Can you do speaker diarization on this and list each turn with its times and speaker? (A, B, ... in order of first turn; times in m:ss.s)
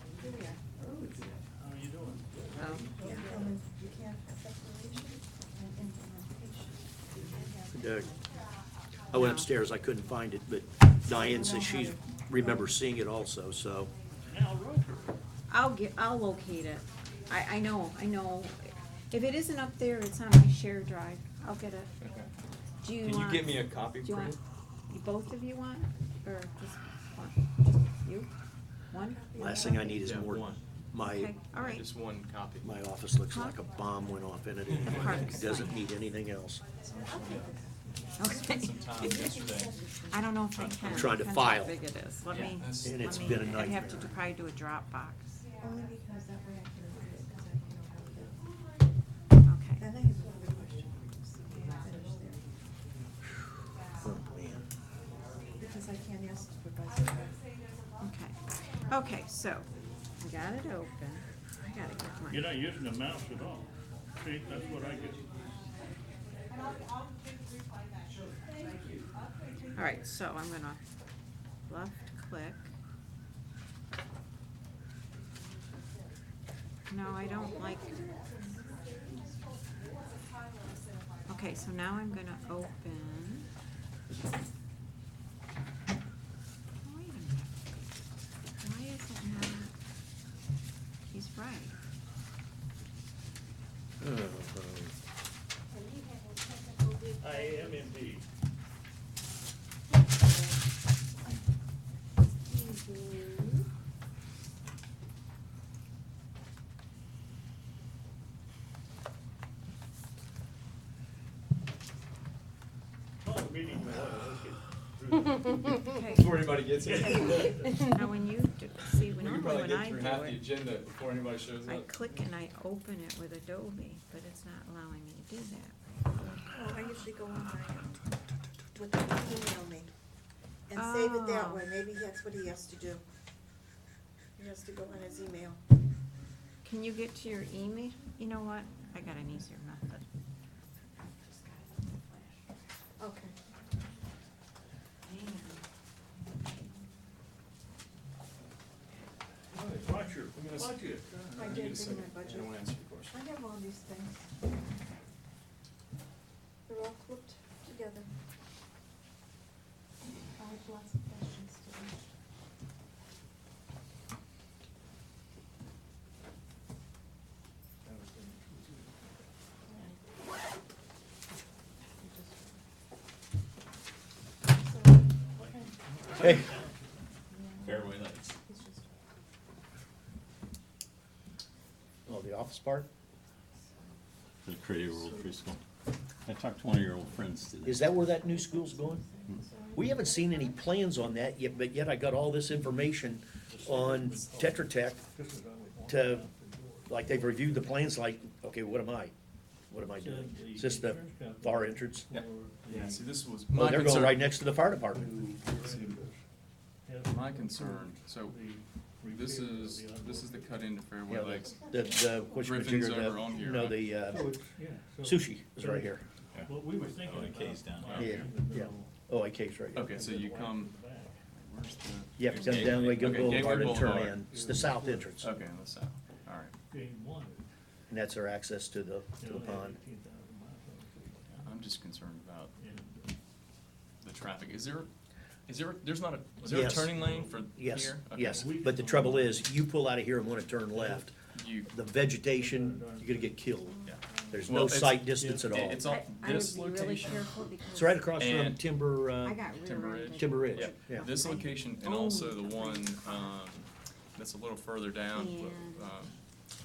0:00.2-0:01.2 A
0:01.4-0:03.6 B
0:02.6-0:02.9 C
0:03.0-0:08.2 A
0:07.7-0:08.1 D
0:09.1-0:13.9 D
0:09.1-0:09.5 C
0:11.0-0:12.7 A
0:14.2-0:15.2 B
0:15.5-0:21.9 C
0:22.0-0:22.3 E
0:22.8-0:28.3 C
0:23.0-0:24.4 E
0:28.9-0:29.7 C
0:29.1-0:30.0 A
0:29.3-0:31.3 D
0:29.9-0:30.6 E
0:31.0-0:31.8 C
0:31.5-0:32.7 E
0:32.6-0:36.6 D
0:33.3-0:33.6 C
0:34.7-0:35.7 E
0:34.8-0:35.8 C
0:36.8-0:38.1 A
0:37.0-0:37.6 E
0:38.1-0:39.4 C
0:38.2-0:39.8 E
0:39.0-0:40.2 A
0:40.1-0:45.4 C
0:40.6-0:41.0 E
0:40.8-0:41.8 D
0:42.3-0:43.5 E
0:42.7-0:44.2 D
0:45.6-0:48.4 A
0:49.4-0:49.9 C
0:49.8-0:52.4 A
0:54.0-0:54.6 D
0:55.6-0:57.4 A
0:58.0-1:02.5 C
1:02.3-1:05.6 B
1:09.7-1:10.8 C
1:11.7-1:12.7 C
1:16.9-1:18.2 C
1:18.2-1:18.8 A
1:21.2-1:23.5 C
1:26.8-1:27.5 C
1:28.6-1:29.7 C
1:31.1-1:31.8 C
1:36.7-1:37.6 A
1:37.2-1:38.2 B
1:43.0-1:43.3 A
1:53.2-1:56.0 B
1:55.8-1:56.4 C
1:55.9-1:58.0 E
1:56.8-1:57.8 B
1:57.0-2:00.5 C
1:59.0-2:01.9 E
2:01.6-2:06.2 C
2:06.2-2:08.0 A
2:08.7-2:09.9 A
2:10.7-2:13.0 A
2:10.7-2:11.6 C
2:14.4-2:15.6 A
2:16.6-2:20.0 C
2:21.0-2:22.5 C
2:23.0-2:23.3 A
2:25.0-2:25.6 C
2:29.5-2:31.6 B
2:30.3-2:33.2 E
2:31.4-2:32.6 A
2:33.1-2:34.2 A
2:36.7-2:38.1 A
2:40.4-2:41.9 A
2:47.8-2:49.0 B
2:54.7-2:55.5 A
2:55.4-2:56.9 B
2:57.6-2:58.4 F
2:58.5-2:58.8 A
3:02.1-3:02.9 D
3:04.4-3:05.6 F
3:06.2-3:08.2 F
3:07.6-3:09.0 D
3:08.3-3:10.6 A
3:09.7-3:15.0 D
3:13.5-3:17.8 B
3:15.9-3:16.3 D
3:16.9-3:19.1 D
3:19.7-3:22.2 D
3:19.9-3:23.1 B
3:22.1-3:24.3 E
3:23.5-3:25.2 D
3:24.8-3:26.2 B
3:25.6-3:26.0 E
3:26.8-3:30.7 B
3:27.1-3:28.4 E
3:29.1-3:31.5 E
3:31.1-3:34.3 D
3:32.4-3:33.9 E
3:34.0-3:39.0 B
3:35.0-3:36.0 D
3:36.3-3:38.3 F
3:37.8-3:38.2 E
3:38.0-3:39.9 D
3:39.7-3:40.7 E
3:39.7-3:41.2 B
3:41.3-3:44.2 E
3:42.2-3:45.3 D
3:42.3-3:43.4 F
3:43.2-3:45.3 B
3:45.2-3:46.5 E
3:46.7-3:47.4 B
3:47.9-3:49.8 D
3:49.2-3:51.6 B
3:51.4-3:52.5 E
3:52.6-3:53.1 B
3:54.0-3:54.9 E
3:55.5-3:58.4 E
3:56.4-3:57.0 D
3:56.5-3:57.5 B
3:57.5-4:01.1 D
3:58.2-3:59.5 B
4:00.7-4:01.1 B
4:01.3-4:01.7 E
4:01.7-4:03.7 D
4:02.3-4:03.5 B
4:03.8-4:04.3 C
4:03.8-4:07.3 E
4:04.3-4:05.8 D
4:05.2-4:05.6 B
4:05.7-4:08.1 C
4:07.7-4:09.4 D
4:08.2-4:08.6 E
4:09.2-4:13.4 C
4:09.6-4:16.1 E
4:10.1-4:11.0 D
4:15.1-4:16.0 C